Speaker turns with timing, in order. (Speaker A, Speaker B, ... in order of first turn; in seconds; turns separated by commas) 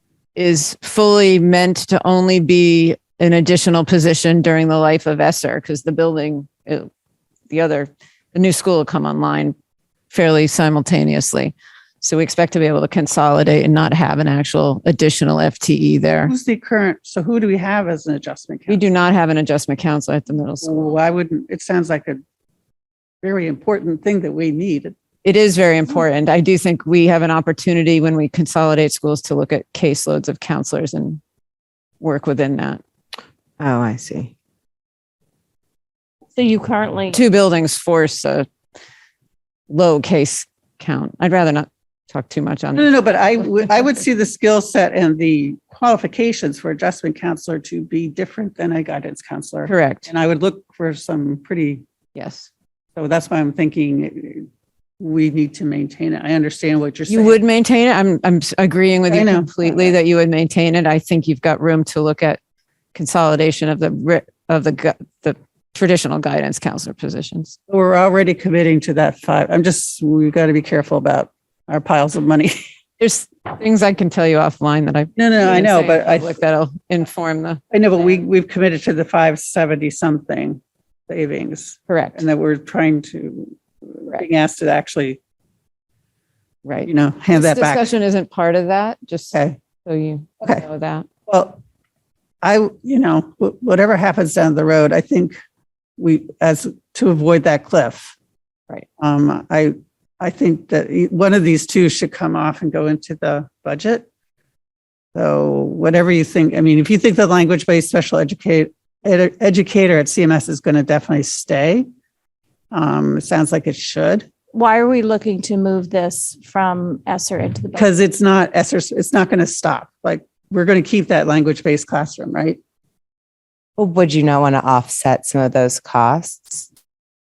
Speaker A: 0.3-6.9, Speaker A: 7.5-9.6, Speaker A: 10.1-16.3, Speaker B: 16.3-18.8, Speaker A: 18.7-21.0, Speaker B: 20.6-22.2, Speaker B: 23.2-24.9, Speaker A: 25.2-31.2, Speaker A: 32.0-32.8, Speaker C: 33.6-34.3, Speaker D: 36.4-37.2, Speaker A: 37.1-38.5, Speaker A: 39.7-42.9, Speaker B: 42.8-51.9, Speaker A: 49.7-50.1, Speaker A: 52.1-52.5, Speaker B: 53.0-54.5, Speaker B: 55.0-57.4, Speaker A: 57.1-62.4, Speaker B: 59.1-60.0, Speaker A: 62.9-67.6, Speaker B: 67.7-72.6, Speaker A: 73.0-78.2, Speaker B: 75.2-76.4, Speaker B: 77.7-85.2, Speaker A: 81.9-82.2, Speaker A: 86.7-91.1, Speaker B: 86.9-87.9, Speaker B: 89.3-89.6, Speaker B: 91.3-91.6, Speaker B: 92.4-95.4, Speaker B: 96.0-98.2, Speaker B: 99.0-104.1, Speaker B: 105.2-111.9, Speaker B: 112.7-114.3, Speaker D: 114.5-117.9, Speaker B: 117.7-122.6, Speaker C: 123.8-126.7